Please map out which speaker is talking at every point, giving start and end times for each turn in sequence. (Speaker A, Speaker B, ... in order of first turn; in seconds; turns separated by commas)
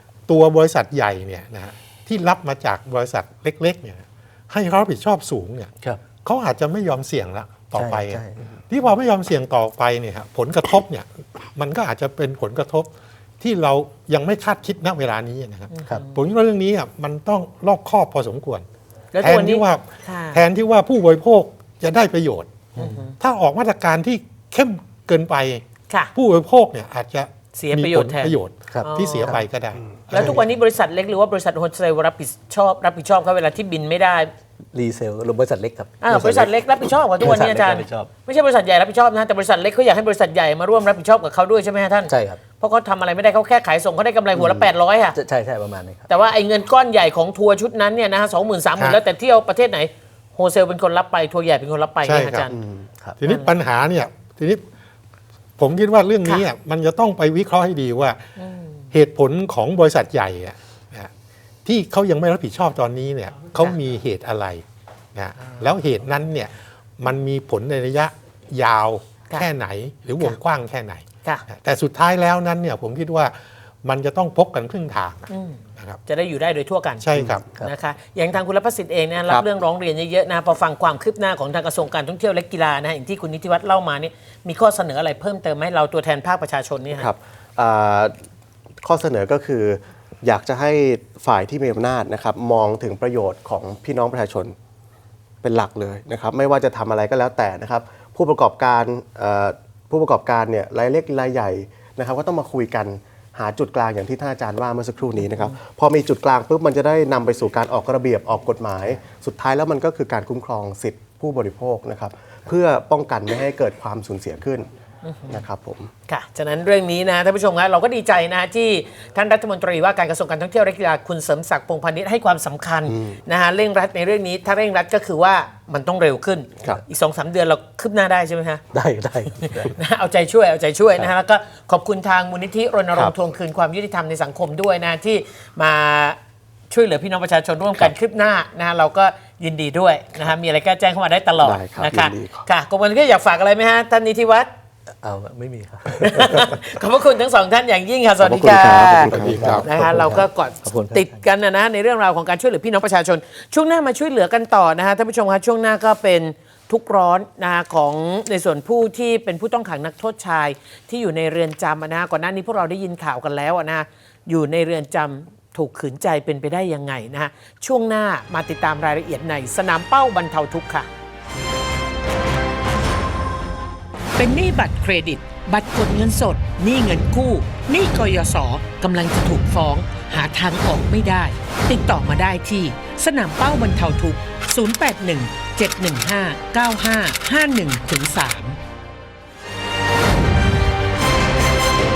Speaker A: 0.3-5.7, Speaker A: 6.2-18.6, Speaker B: 7.7-8.4, Speaker C: 15.7-16.1, Speaker C: 19.1-20.4, Speaker A: 19.2-22.7, Speaker C: 22.8-23.1, Speaker A: 23.2-25.6, Speaker A: 26.1-30.4, Speaker C: 27.5-29.4, Speaker B: 28.7-29.4, Speaker C: 30.1-34.3, Speaker B: 34.7-36.5, Speaker C: 36.0-45.2, Speaker B: 37.2-38.1, Speaker B: 42.1-42.4, Speaker B: 44.4-46.1, Speaker C: 46.1-52.6, Speaker A: 52.0-52.5, Speaker D: 52.6-52.9, Speaker A: 53.2-54.6, Speaker C: 53.2-53.5, Speaker A: 55.6-58.2, Speaker C: 58.4-58.7, Speaker A: 58.9-61.1, Speaker A: 61.6-76.0, Speaker C: 75.3-87.1, Speaker A: 77.0-77.4, Speaker D: 86.9-88.1, Speaker D: 88.8-94.5, Speaker D: 95.4-114.7, Speaker C: 115.0-115.4, Speaker D: 115.3-115.9, Speaker C: 116.1-128.6, Speaker B: 128.7-129.7, Speaker C: 129.4-136.2, Speaker C: 136.7-144.5, Speaker D: 141.4-142.5, Speaker B: 145.0-146.6, Speaker C: 145.9-170.9, Speaker D: 148.2-149.6, Speaker B: 148.8-151.1, Speaker C: 174.2-188.6